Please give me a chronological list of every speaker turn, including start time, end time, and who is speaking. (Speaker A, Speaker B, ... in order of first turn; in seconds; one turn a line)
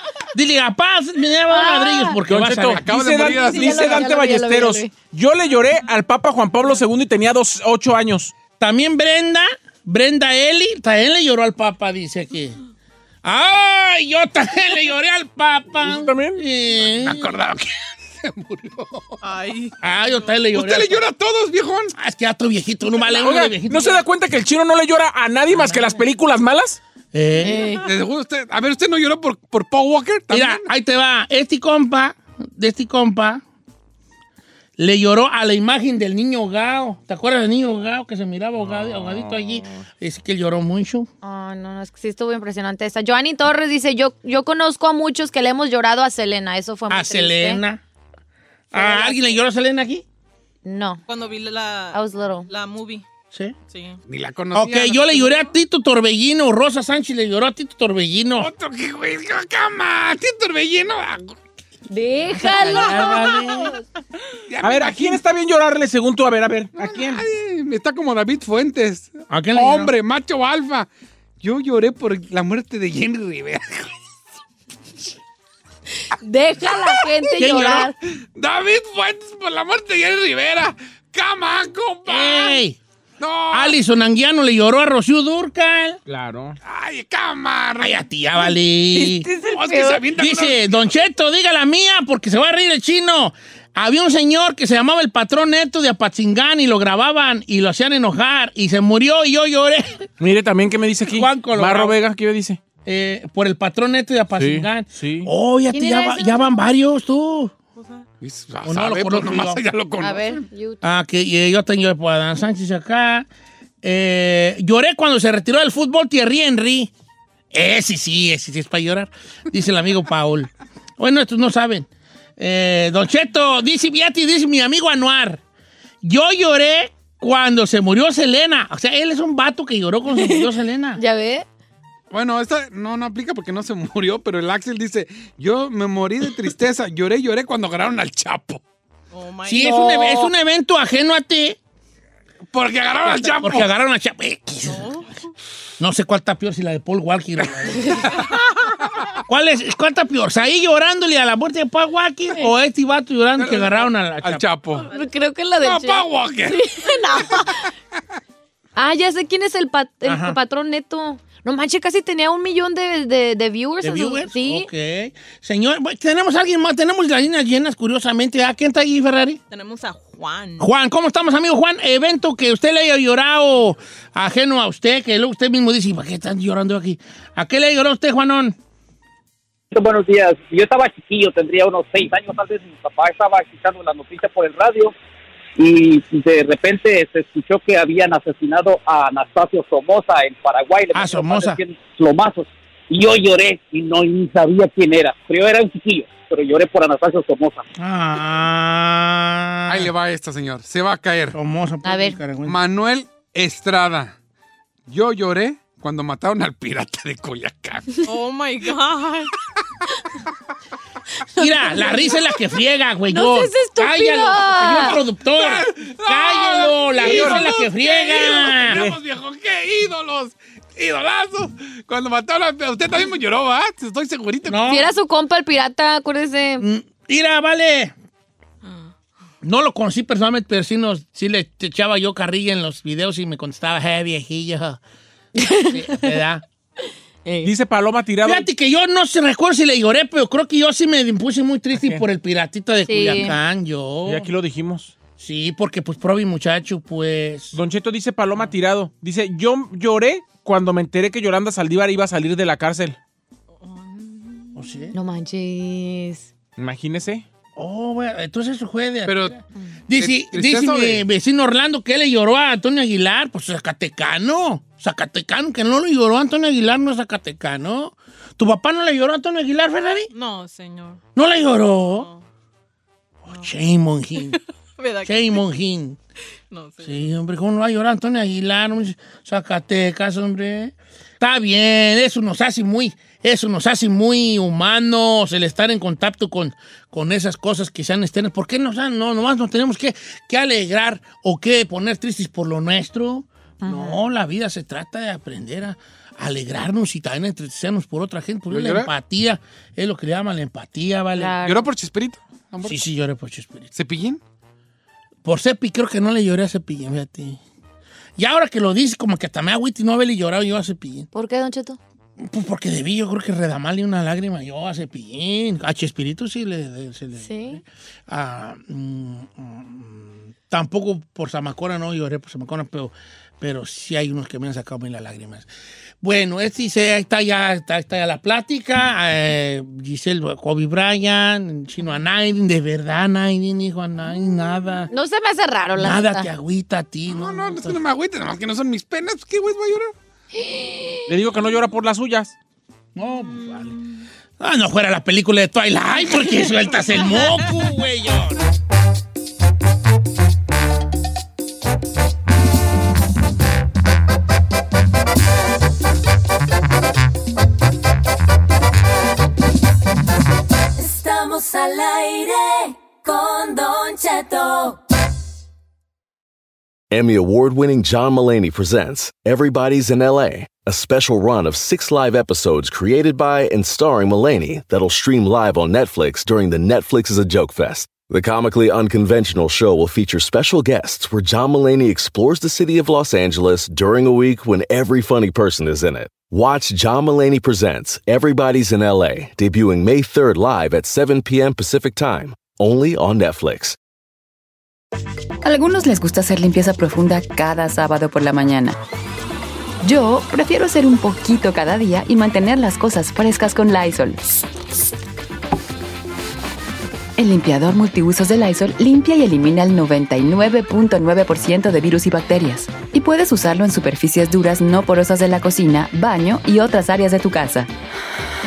Speaker A: 0.3-2.8
Speaker B: 1.5-2.2
Speaker C: 2.3-8.3
Speaker D: 2.7-4.1
Speaker B: 3.2-4.9
Speaker A: 8.6-12.6
Speaker A: 13.2-17.3
Speaker C: 15.8-16.4
Speaker D: 17.0-19.2
Speaker E: 19.2-20.3
Speaker A: 19.8-21.0
Speaker D: 20.5-21.9
Speaker A: 22.0-24.0
Speaker C: 23.2-26.8
Speaker A: 25.5-26.0
Speaker A: 27.1-27.7
Speaker B: 27.4-27.8
Speaker D: 27.8-30.6
Speaker A: 30.3-33.4
Speaker A: 34.8-41.1
Speaker C: 38.8-39.2
Speaker B: 41.2-47.6
Speaker A: 46.9-47.8
Speaker A: 48.7-50.0
Speaker B: 48.7-49.2
Speaker B: 50.6-51.0
Speaker E: 51.1-53.0
Speaker B: 51.9-52.5
Speaker E: 53.7-54.0
Speaker D: 54.1-55.4
Speaker A: 54.5-58.5
Speaker D: 58.4-61.4
Speaker B: 61.9-63.8
Speaker A: 62.3-63.8
Speaker D: 64.5-65.2
Speaker C: 64.6-67.2
Speaker D: 66.8-70.9
Speaker A: 69.3-69.9
Speaker D: 71.4-73.9
Speaker B: 76.2-78.0
Speaker D: 76.7-77.8
Speaker A: 77.4-77.9
Speaker D: 78.4-82.5
Speaker A: 82.1-82.8
Speaker D: 83.2-83.8
Speaker A: 83.5-86.0
Speaker C: 86.1-86.5
Speaker D: 86.6-88.0
Speaker A: 87.8-89.3
Speaker B: 88.4-90.0
Speaker D: 89.4-90.8
Speaker A: 90.1-100.0
Speaker C: 100.2-102.6
Speaker A: 101.1-102.0
Speaker A: 102.8-107.5
Speaker C: 104.4-105.3
Speaker B: 105.7-106.6
Speaker E: 107.8-108.1
Speaker D: 108.2-110.5
Speaker A: 108.6-109.6
Speaker B: 110.0-110.8
Speaker A: 110.8-113.3
Speaker A: 113.8-116.9
Speaker A: 117.5-125.4
Speaker A: 126.0-131.0
Speaker B: 130.1-131.5
Speaker D: 132.1-138.6
Speaker E: 139.1-139.9
Speaker A: 139.4-141.6
Speaker B: 139.6-140.3
Speaker D: 142.5-143.7
Speaker A: 143.0-144.9
Speaker E: 144.7-145.1
Speaker A: 145.8-148.0
Speaker A: 149.3-154.4
Speaker D: 153.4-154.9
Speaker B: 154.9-157.7
Speaker D: 155.6-156.6
Speaker B: 158.8-164.7
Speaker A: 160.0-160.4
Speaker A: 163.8-169.4
Speaker E: 169.5-170.7
Speaker A: 170.6-178.6
Speaker F: 179.7-184.9
Speaker F: 185.6-197.6
Speaker A: 190.9-191.6
Speaker A: 197.8-199.9
Speaker D: 199.7-201.4
Speaker A: 201.3-202.6
Speaker B: 201.8-202.2
Speaker D: 202.4-204.1
Speaker D: 204.9-208.0
Speaker E: 208.1-209.3
Speaker A: 211.3-219.0
Speaker B: 211.4-211.9
Speaker B: 213.1-215.0
Speaker D: 215.3-224.7
Speaker B: 217.0-217.5
Speaker A: 224.4-224.9
Speaker B: 224.6-226.7
Speaker A: 226.6-227.9
Speaker A: 229.4-234.8
Speaker B: 235.4-235.8
Speaker A: 235.4-236.4
Speaker B: 237.2-237.5
Speaker C: 237.4-238.5
Speaker A: 238.2-244.3
Speaker C: 241.8-242.0
Speaker B: 242.9-243.4
Speaker C: 244.1-244.9
Speaker A: 245.2-247.6
Speaker C: 247.5-253.0
Speaker E: 253.6-254.5
Speaker A: 254.6-254.9
Speaker B: 254.9-256.3
Speaker C: 256.6-257.2
Speaker A: 257.6-259.4
Speaker D: 259.1-259.4
Speaker A: 259.9-270.1
Speaker D: 260.0-261.0
Speaker E: 270.1-271.0
Speaker A: 271.2-272.1
Speaker E: 271.9-272.2
Speaker A: 273.2-274.4
Speaker E: 274.3-275.4
Speaker A: 275.1-276.0
Speaker E: 276.5-277.1
Speaker A: 276.8-301.4
Speaker B: 293.6-294.0
Speaker D: 298.5-298.9
Speaker B: 301.1-301.7
Speaker D: 301.4-302.8
Speaker A: 302.6-303.7
Speaker D: 303.8-304.2
Speaker A: 305.2-307.4
Speaker A: 308.2-311.1
Speaker B: 311.1-311.8
Speaker A: 312.2-325.5
Speaker B: 317.2-317.6
Speaker A: 326.0-334.9
Speaker B: 334.9-336.3
Speaker A: 335.8-337.8
Speaker D: 337.1-339.9
Speaker B: 340.4-341.0
Speaker C: 341.1-342.4
Speaker A: 342.9-343.8
Speaker A: 344.4-348.4
Speaker G: 360.8-364.8
Speaker H: 366.9-393.8
Speaker I: 395.4-398.8
Speaker I: 399.8-404.4
Speaker I: 407.2-417.7